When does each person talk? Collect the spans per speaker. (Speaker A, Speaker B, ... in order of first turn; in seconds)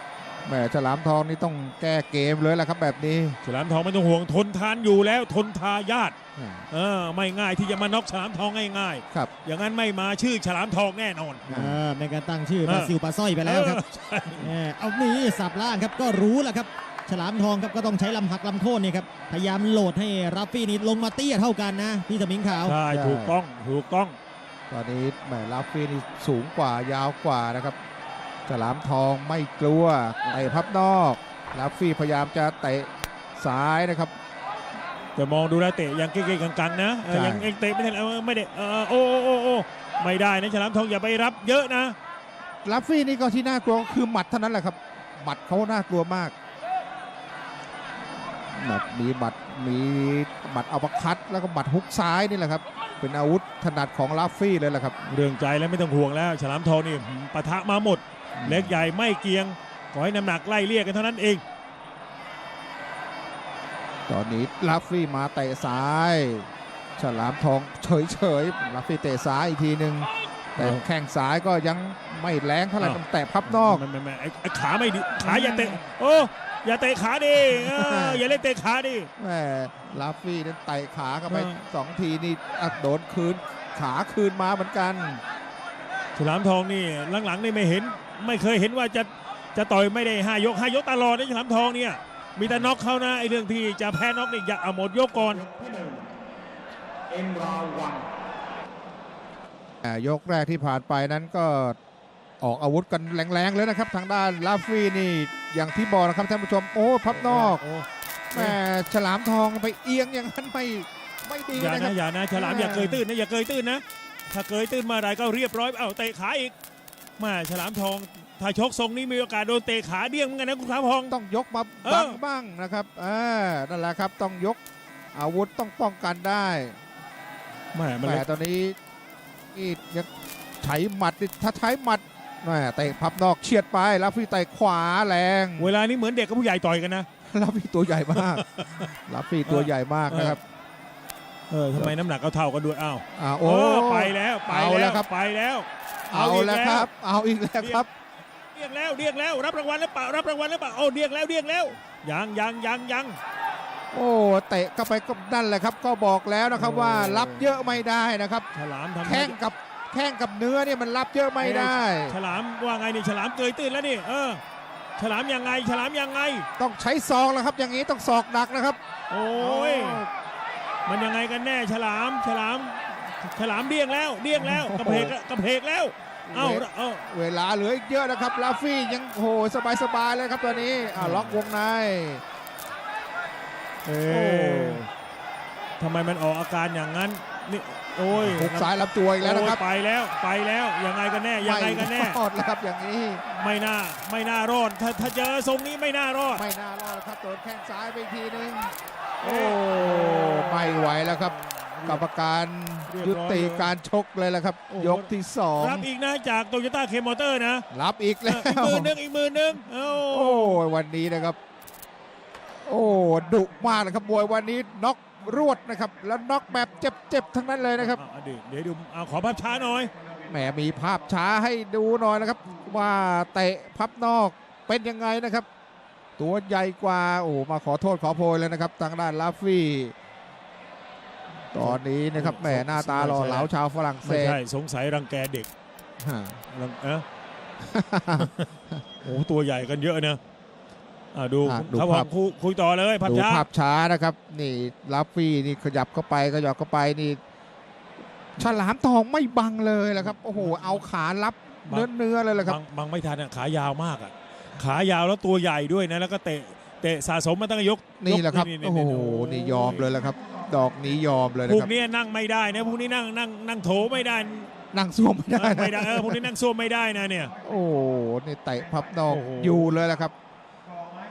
Speaker A: 0.4-3.4, 6.3-6.7, 11.5-11.8, 22.9-23.4, 24.7-27.8, 28.5-34.1, 37.1-37.5, 42.6-46.3, 48.5-55.0, 58.4-58.9, 64.1-73.8, 75.2-75.8, 77.5-78.2, 79.2-85.2, 99.8-101.8, 102.4-107.6, 108.3-113.0, 121.1-124.6, 125.1-126.8, 128.0-128.8, 129.5-130.1, 130.6-135.7, 137.3-140.4, 143.1-145.1, 146.1-147.9, 153.9-158.5, 159.0-162.2, 166.6-168.8, 169.3-170.1, 174.3-175.1, 176.3-182.2, 184.1-184.8, 188.1-189.6, 191.4-193.2, 196.3-205.9, 207.7-208.9, 210.1-211.4, 212.7-218.0, 220.3-225.5, 226.2-229.9, 231.5-234.4, 236.0-236.4, 237.6-238.3, 241.4-242.1, 243.0-247.2, 248.3-252.6, 258.0-261.7, 264.7-266.3, 267.4-270.1
Speaker B: 3.4-6.1, 6.7-11.4, 12.6-14.5, 22.6-24.2, 35.1-42.0, 55.0-61.4, 70.6-70.8, 72.8-79.1, 81.3-81.6, 86.2-95.4, 107.1-108.6, 111.5-116.5, 117.2-121.1, 121.8-122.2, 127.7-128.2, 135.6-137.1, 138.2-138.7, 139.4-140.4, 141.5-146.9, 147.6-147.8, 148.5-153.2, 156.5-157.5, 158.5-159.4, 161.4-164.4, 165.0-166.5, 169.1-170.0, 170.8-177.1, 181.0-181.4, 183.8-184.9, 185.8-192.2, 193.3-196.4, 199.2-202.0, 202.9-203.7, 204.7-207.7, 208.2-210.6, 217.9-219.9, 231.5-233.5, 234.0-235.5, 236.5-237.0, 238.2-238.5, 239.0-240.2, 241.1-243.5, 251.7-259.9, 261.4-264.5, 265.3-267.3, 269.1-269.8
Speaker C: 11.5-13.8, 14.4-22.8, 95.5-96.0, 97.2-98.0